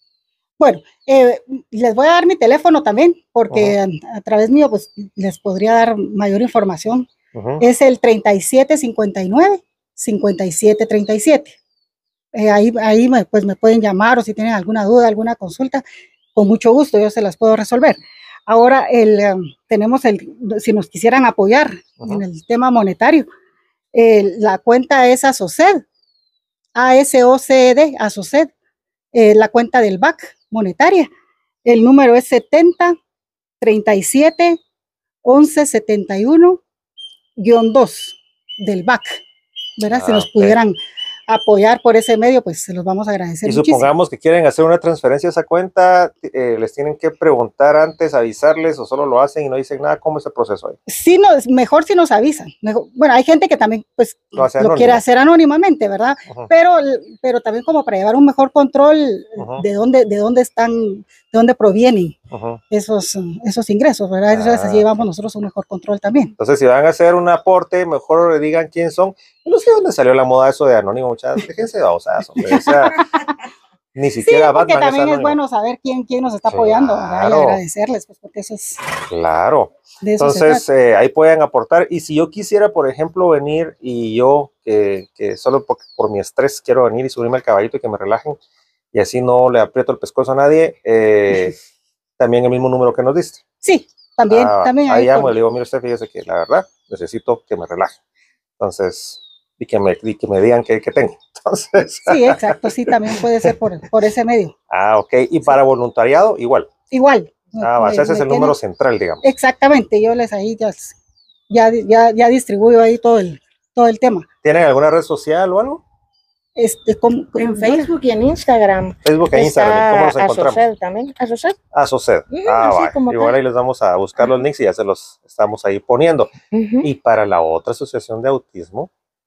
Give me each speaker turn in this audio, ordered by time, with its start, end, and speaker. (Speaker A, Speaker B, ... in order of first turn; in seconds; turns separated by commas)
Speaker A: 0.6-7.1, Speaker B: 7.3-7.6, Speaker A: 7.6-11.6, Speaker A: 12.3-15.8, Speaker A: 16.3-23.3, Speaker A: 23.9-25.8, Speaker A: 26.7-28.5, Speaker A: 29.1-31.1, Speaker A: 31.6-33.0, Speaker A: 33.6-34.6, Speaker A: 35.2-36.6, Speaker A: 37.4-39.2, Speaker A: 39.8-40.8, Speaker B: 39.9-40.6, Speaker A: 41.3-43.9, Speaker B: 43.4-50.8, Speaker A: 50.9-62.2, Speaker B: 54.4-55.0, Speaker B: 59.4-59.6, Speaker B: 62.3-62.6, Speaker A: 62.7-66.3, Speaker B: 64.3-65.0, Speaker B: 66.4-73.0, Speaker A: 72.5-73.2, Speaker B: 73.9-75.4, Speaker A: 74.2-78.8, Speaker B: 76.5-77.6, Speaker B: 79.0-88.4, Speaker A: 80.0-80.6, Speaker B: 88.9-91.6, Speaker B: 92.2-93.4, Speaker A: 93.6-95.3, Speaker B: 94.3-98.0, Speaker B: 98.6-103.5, Speaker A: 102.0-104.5, Speaker B: 104.7-106.7, Speaker A: 106.9-108.6, Speaker B: 107.6-109.2, Speaker A: 109.2-110.9, Speaker A: 111.5-114.3, Speaker B: 114.4-115.8, Speaker A: 116.5-117.9, Speaker C: 117.3-121.6, Speaker B: 119.0-120.6, Speaker B: 121.7-126.3, Speaker C: 122.3-123.4, Speaker C: 126.5-126.9, Speaker B: 126.8-128.9